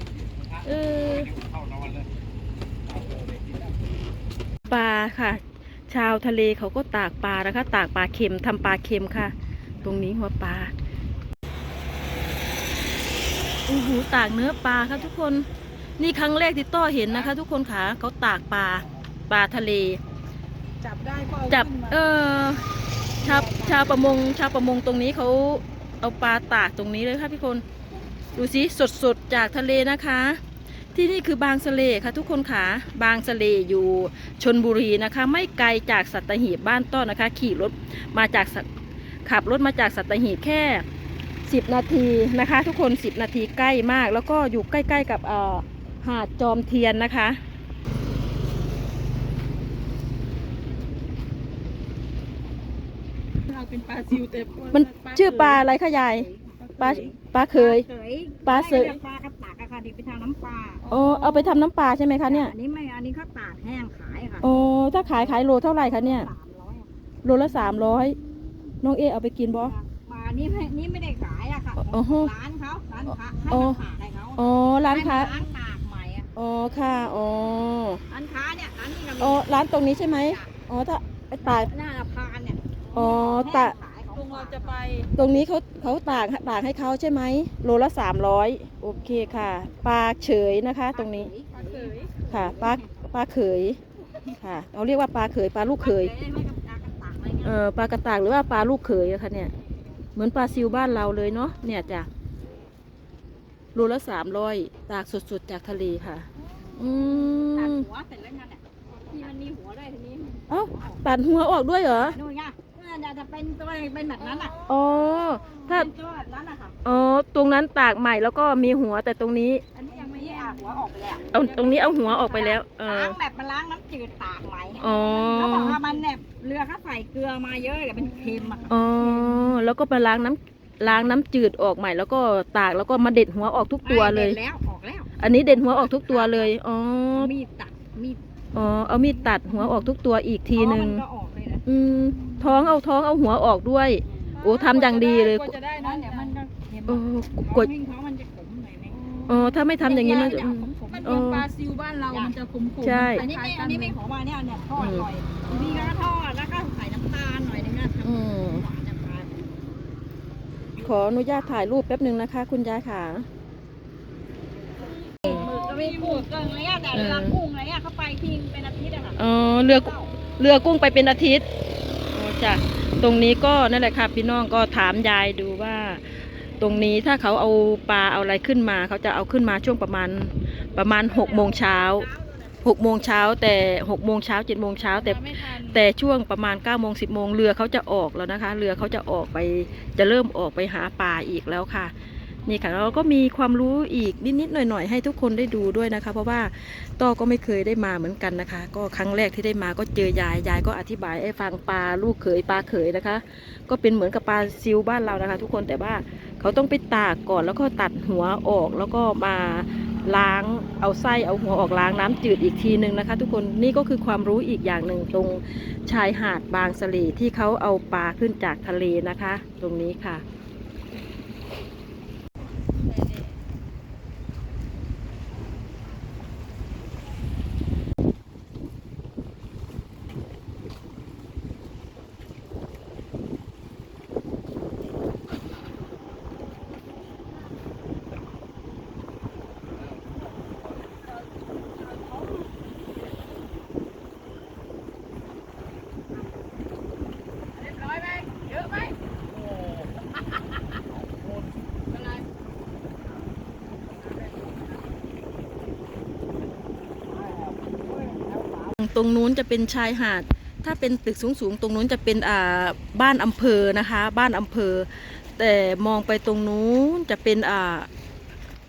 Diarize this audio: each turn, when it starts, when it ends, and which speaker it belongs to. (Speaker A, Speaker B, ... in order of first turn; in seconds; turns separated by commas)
Speaker A: 0.6-1.4, Speaker A: 4.7-10.7, Speaker A: 13.7-15.5, Speaker A: 16.0-20.0, Speaker B: 20.8-22.0, Speaker A: 21.5-22.6, Speaker A: 23.2-27.6, Speaker B: 23.2-23.8, Speaker A: 28.4-30.4, Speaker A: 30.9-38.7, Speaker A: 39.3-40.9, Speaker A: 41.5-47.4, Speaker B: 53.5-55.6, Speaker A: 54.7-57.9, Speaker C: 56.1-60.9, Speaker B: 56.6-57.0, Speaker A: 58.5-59.0, Speaker B: 60.8-61.6, Speaker A: 60.9-62.5, Speaker C: 62.2-64.5, Speaker A: 64.4-66.3, Speaker C: 65.0-66.9, Speaker A: 67.2-68.2, Speaker A: 68.8-69.7, Speaker C: 69.5-76.3, Speaker A: 71.8-72.3, Speaker A: 73.5-73.8, Speaker A: 74.4-75.3, Speaker A: 76.3-78.0, Speaker C: 78.1-80.5, Speaker A: 79.2-81.7, Speaker C: 81.4-84.8, Speaker A: 82.9-83.8, Speaker B: 84.1-85.1, Speaker A: 85.2-91.3, Speaker C: 90.9-93.0, Speaker B: 91.6-92.3, Speaker A: 92.3-93.8, Speaker A: 94.4-96.1, Speaker C: 95.8-97.6, Speaker A: 97.4-99.5, Speaker A: 100.2-102.1, Speaker A: 103.7-106.3, Speaker C: 106.5-111.0, Speaker A: 106.8-107.8, Speaker A: 110.5-112.2, Speaker C: 112.0-114.6, Speaker B: 114.2-114.7, Speaker A: 114.7-115.9, Speaker C: 115.7-116.8, Speaker A: 116.8-119.6, Speaker B: 119.8-120.6, Speaker C: 119.8-121.3, Speaker A: 121.3-123.2, Speaker B: 121.3-122.3, Speaker C: 122.0-128.9, Speaker A: 124.8-125.8, Speaker B: 125.4-126.0, Speaker B: 128.0-128.8, Speaker A: 128.7-134.4, Speaker C: 133.8-136.5, Speaker A: 135.2-137.3, Speaker C: 137.2-138.2, Speaker A: 138.5-141.0, Speaker C: 139.2-139.9, Speaker C: 140.5-141.7, Speaker A: 141.7-145.6, Speaker C: 142.2-142.5, Speaker C: 144.3-144.7, Speaker B: 144.4-146.3, Speaker C: 145.7-151.3, Speaker A: 146.9-147.7, Speaker B: 149.0-154.0, Speaker A: 149.3-151.5, Speaker C: 152.1-152.4, Speaker A: 152.8-153.3, Speaker C: 153.1-159.5, Speaker A: 154.8-155.1, Speaker A: 158.0-158.6, Speaker A: 160.8-163.3, Speaker C: 165.2-170.1, Speaker B: 165.3-166.3, Speaker A: 166.9-167.4, Speaker A: 169.2-171.5, Speaker A: 172.1-182.1, Speaker C: 180.7-183.4, Speaker A: 182.6-191.9, Speaker B: 184.8-185.8, Speaker A: 192.4-220.2, Speaker B: 192.5-192.9, Speaker B: 247.7-248.9, Speaker C: 258.1-258.5, Speaker A: 258.8-267.9